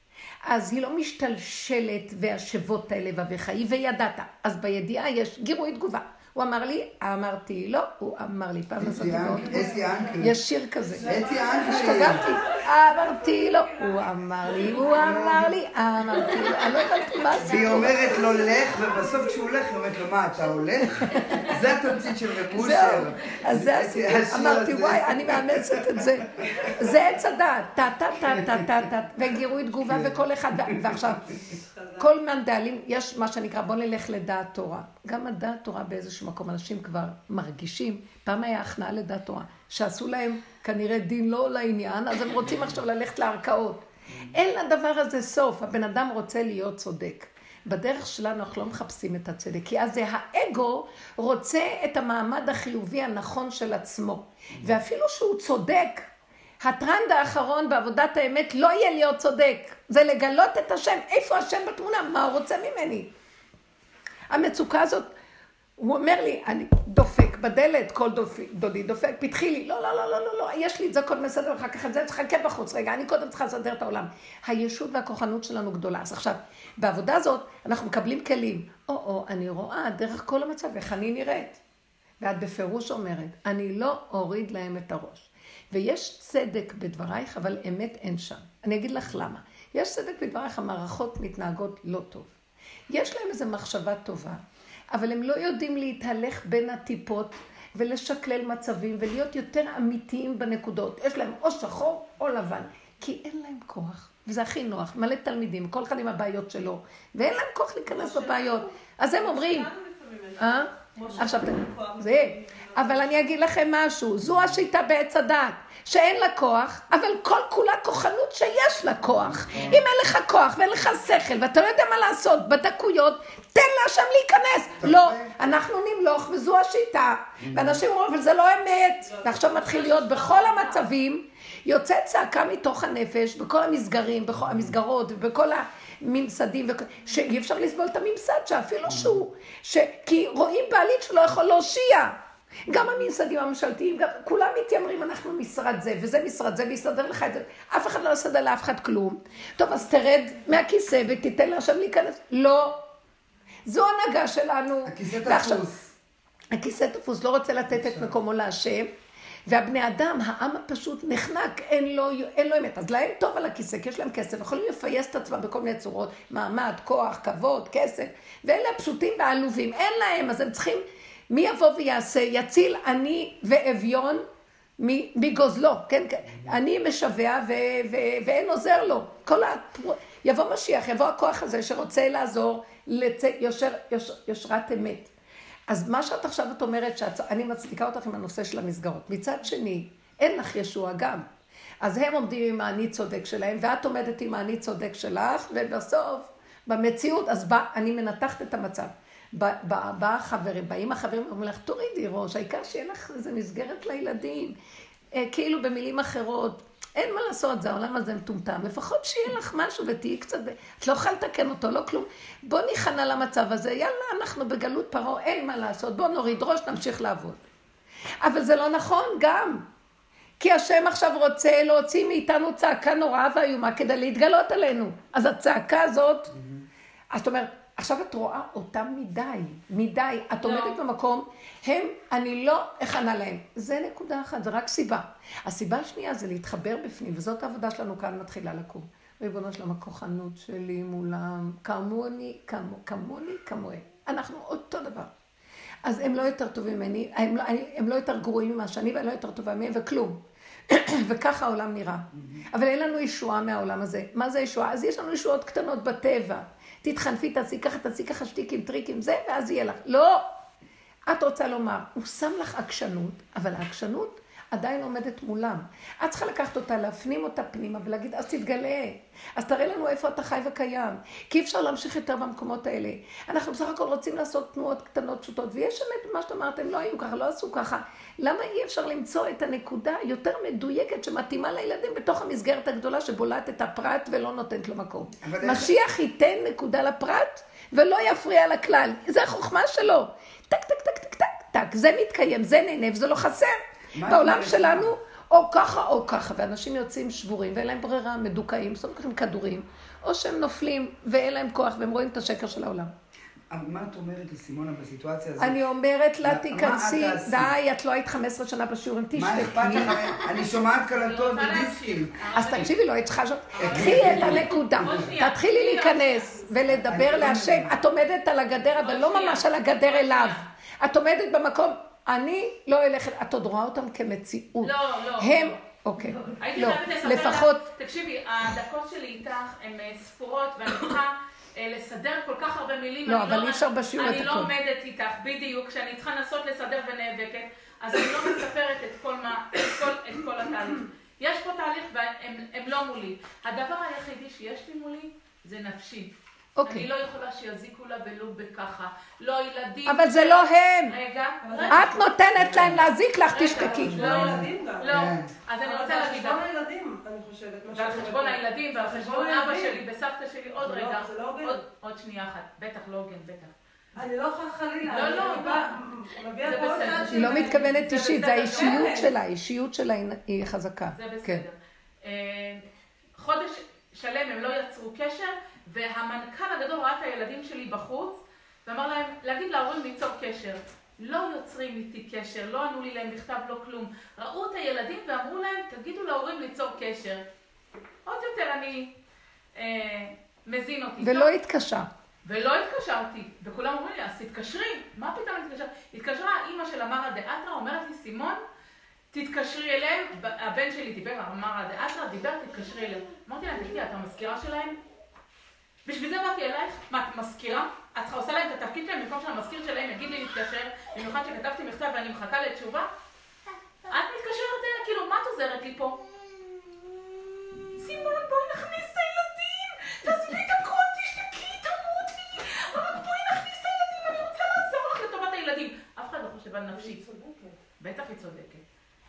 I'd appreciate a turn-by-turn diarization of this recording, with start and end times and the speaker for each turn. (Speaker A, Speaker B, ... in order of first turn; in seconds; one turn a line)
Speaker A: 0.5-18.2
Speaker B: 8.8-10.4
Speaker C: 9.6-10.2
Speaker C: 10.9-15.1
Speaker B: 10.9-12.3
Speaker B: 14.8-15.6
Speaker B: 17.4-26.9
Speaker A: 21.1-21.6
Speaker A: 22.5-31.4
Speaker B: 28.3-28.7
Speaker B: 29.9-31.0
Speaker C: 31.4-32.0
Speaker A: 32.0-56.1
Speaker A: 56.6-63.1
Speaker A: 64.3-65.1
Speaker A: 65.8-81.6
Speaker A: 82.2-92.3
Speaker A: 92.9-109.7
Speaker C: 107.9-113.3
Speaker A: 110.4-152.8
Speaker B: 119.2-119.9
Speaker B: 124.8-125.5
Speaker B: 127.4-127.8
Speaker C: 129.3-130.4
Speaker D: 130.2-130.7
Speaker A: 153.7-155.6
Speaker B: 154.9-155.9
Speaker A: 156.5-158.9
Speaker B: 157.8-158.1
Speaker A: 159.5-174.2
Speaker A: 174.8-185.1
Speaker A: 185.7-191.3
Speaker A: 191.8-204.6
Speaker A: 205.1-217.4
Speaker A: 218.2-219.7
Speaker A: 220.4-226.3
Speaker A: 227.1-245.1
Speaker D: 230.4-230.8
Speaker A: 245.8-260.2
Speaker A: 261.1-302.9
Speaker B: 285.2-285.7
Speaker B: 293.9-294.9
Speaker B: 303.5-305.6
Speaker A: 305.4-310.1
Speaker B: 306.2-307.5
Speaker B: 309.1-312.2
Speaker D: 310.9-312.8
Speaker A: 312.3-327.7
Speaker D: 313.5-316.3
Speaker B: 313.6-315.0
Speaker B: 316.8-317.8
Speaker D: 318.8-320.4
Speaker D: 324.6-325.5
Speaker D: 326.4-346.1
Speaker A: 333.1-334.5
Speaker A: 346.6-346.9
Speaker D: 346.7-352.0
Speaker A: 349.9-351.0
Speaker C: 351.4-352.0
Speaker A: 351.7-354.0
Speaker B: 352.4-352.9
Speaker D: 353.3-356.4
Speaker C: 353.5-354.9
Speaker B: 354.0-355.3
Speaker C: 355.6-359.8
Speaker D: 357.7-363.5
Speaker C: 360.6-361.6
Speaker C: 364.0-367.6
Speaker D: 364.8-365.7
Speaker D: 366.4-369.0
Speaker A: 367.1-371.5
Speaker C: 368.5-369.1
Speaker D: 370.9-372.6
Speaker D: 373.2-387.2
Speaker D: 388.1-388.9
Speaker D: 389.6-391.3
Speaker A: 391.0-391.9
Speaker D: 392.2-398.4
Speaker D: 399.1-404.8
Speaker D: 405.9-412.9
Speaker D: 413.9-416.0
Speaker D: 417.8-427.0
Speaker C: 426.8-427.6
Speaker D: 427.8-428.6